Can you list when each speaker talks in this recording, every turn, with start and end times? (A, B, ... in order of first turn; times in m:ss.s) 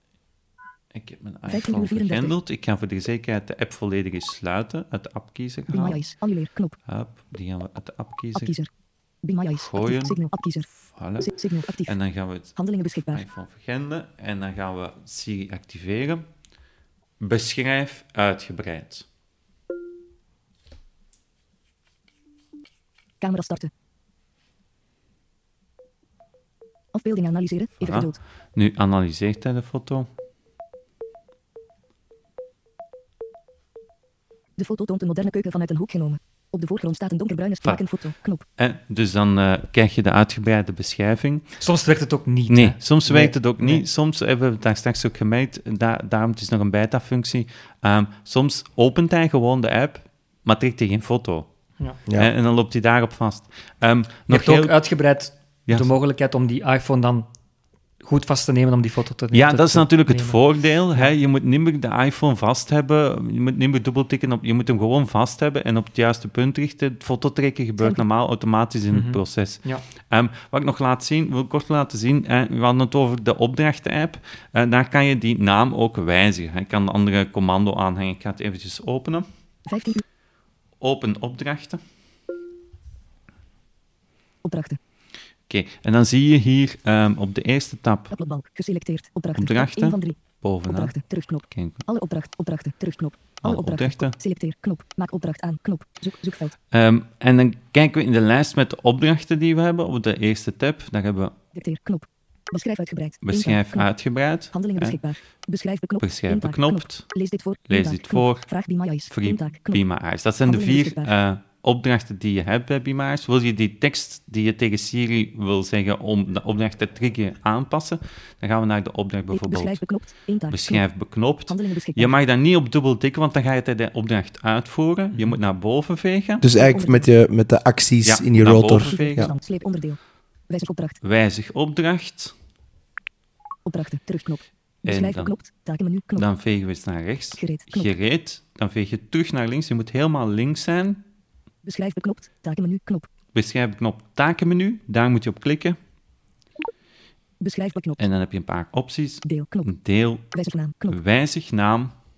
0:00.9-0:08.6 A
0:01.5-0:02.4 B
0:05.7-0:06.8 B
0:08.4-0:08.7 B
0:09.2-0:12.0 B
0:09.5-0:16.3 A
0:12.5-0:13.2 B
0:17.2-0:19.1 A
0:23.2-0:23.7 B
0:26.9-0:28.2 B
0:27.8-0:30.1 A
0:34.6-0:38.4 B
0:37.6-0:41.7 A
0:41.6-0:43.8 C
0:42.5-0:55.9 A
0:54.3-0:57.4 C
0:58.0-1:01.1 C
0:59.3-1:19.3 A
1:08.9-1:09.8 C
1:19.7-1:20.0 B
1:20.8-1:21.8 A
1:24.4-1:24.8 B
1:25.5-1:28.2 A
1:28.1-1:36.6 B
1:29.4-1:31.9 A
1:33.4-1:34.2 A
1:36.7-1:41.3 A
1:41.5-1:49.9 B
1:43.2-1:45.2 A
1:46.0-2:06.5 A
1:50.4-1:51.1 B
1:59.3-2:02.2 B
2:05.1-2:05.4 C
2:06.4-2:09.4 D
2:06.5-2:07.1 B
2:08.0-2:09.3 A
2:08.8-2:11.0 B
2:11.0-2:12.4 A
2:13.6-2:16.3 B
2:14.8-2:15.4 A
2:16.2-2:21.0 A
2:17.4-2:17.9 B
2:21.6-2:23.1 B
2:23.3-2:25.8 A
2:27.4-2:28.1 B
2:28.0-2:31.9 A
2:29.2-2:29.7 B
2:30.3-2:31.0 B